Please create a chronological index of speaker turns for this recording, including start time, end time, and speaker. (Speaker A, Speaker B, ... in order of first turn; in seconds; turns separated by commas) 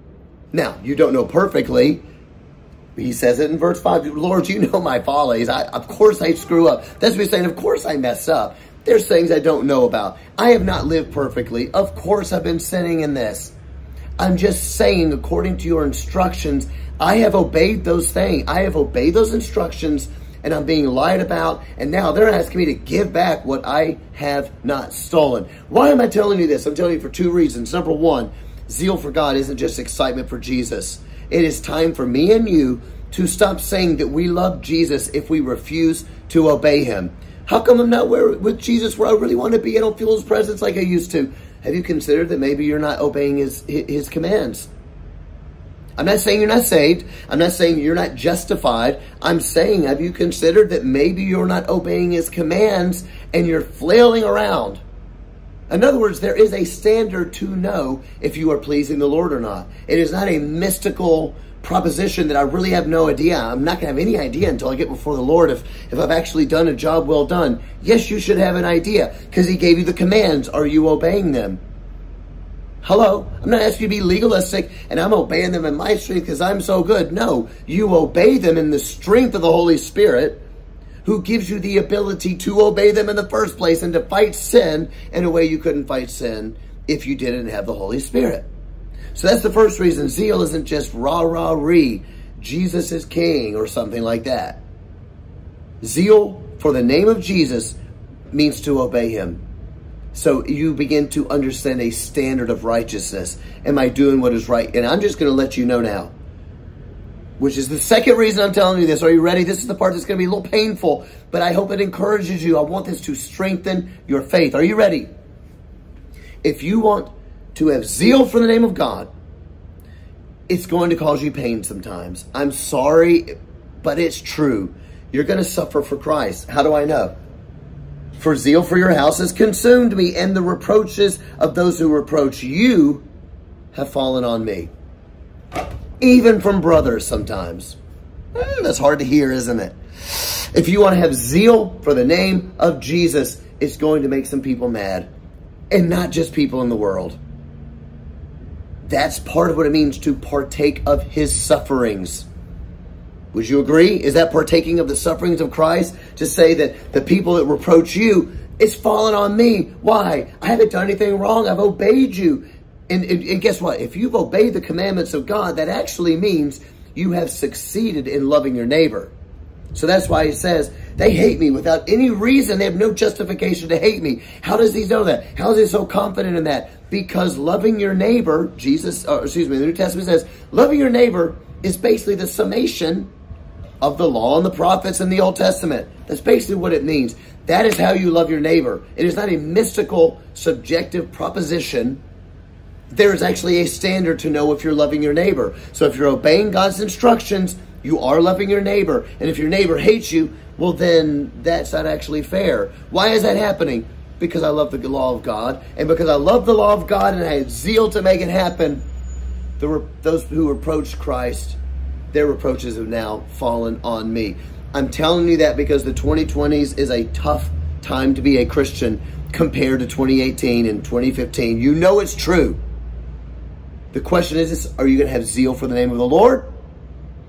Speaker A: 0.5-2.0, Speaker A: 3.0-13.5, Speaker A: 14.2-44.7, Speaker A: 46.0-54.8, Speaker A: 55.7-71.6, Speaker A: 72.8-80.4, Speaker A: 81.0-88.5, Speaker A: 89.1-94.6, Speaker A: 95.8-97.8, Speaker A: 98.3-99.4, Speaker A: 100.1-106.1, Speaker A: 107.4-115.1, Speaker A: 116.4-119.1, Speaker A: 120.5-127.1, Speaker A: 128.2-133.0, Speaker A: 133.7-134.7, Speaker A: 136.0-137.8, Speaker A: 138.3-145.1, Speaker A: 145.7-147.2, Speaker A: 148.8-152.3, Speaker A: 153.3-169.1, Speaker A: 169.7-183.1, Speaker A: 183.8-192.0, Speaker A: 192.9-208.8, Speaker A: 209.6-211.6, Speaker A: 212.1-222.6, Speaker A: 223.9-226.5